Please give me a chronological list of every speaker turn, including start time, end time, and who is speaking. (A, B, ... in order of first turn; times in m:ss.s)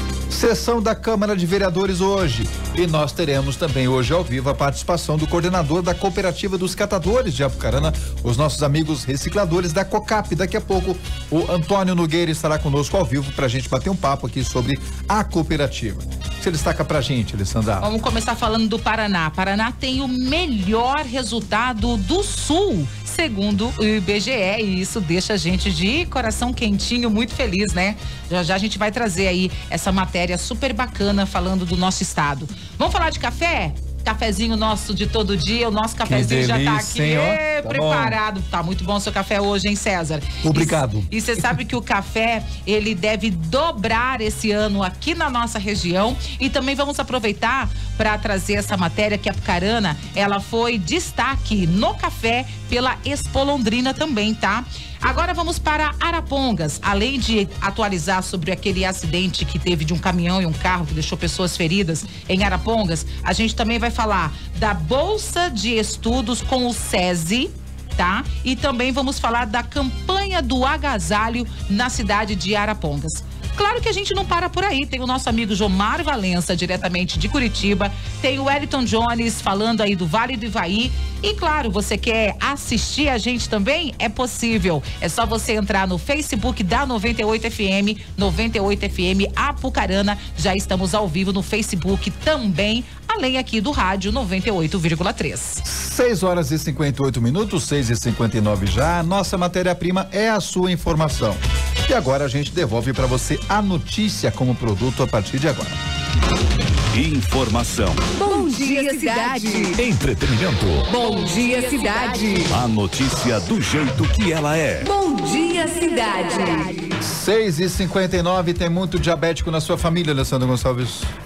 0:00.3-0:17.9 A
0:17.8-1:35.6 B
0:36.0-0:38.2 A
0:40.4-0:41.5 A
1:35.6-1:45.8 A
1:46.9-1:48.1 C
1:48.1-1:49.8 D
1:49.7-1:50.9 C
1:50.9-1:52.6 D
1:52.5-1:54.9 C
1:54.8-1:57.0 D
1:57.0-2:01.1 A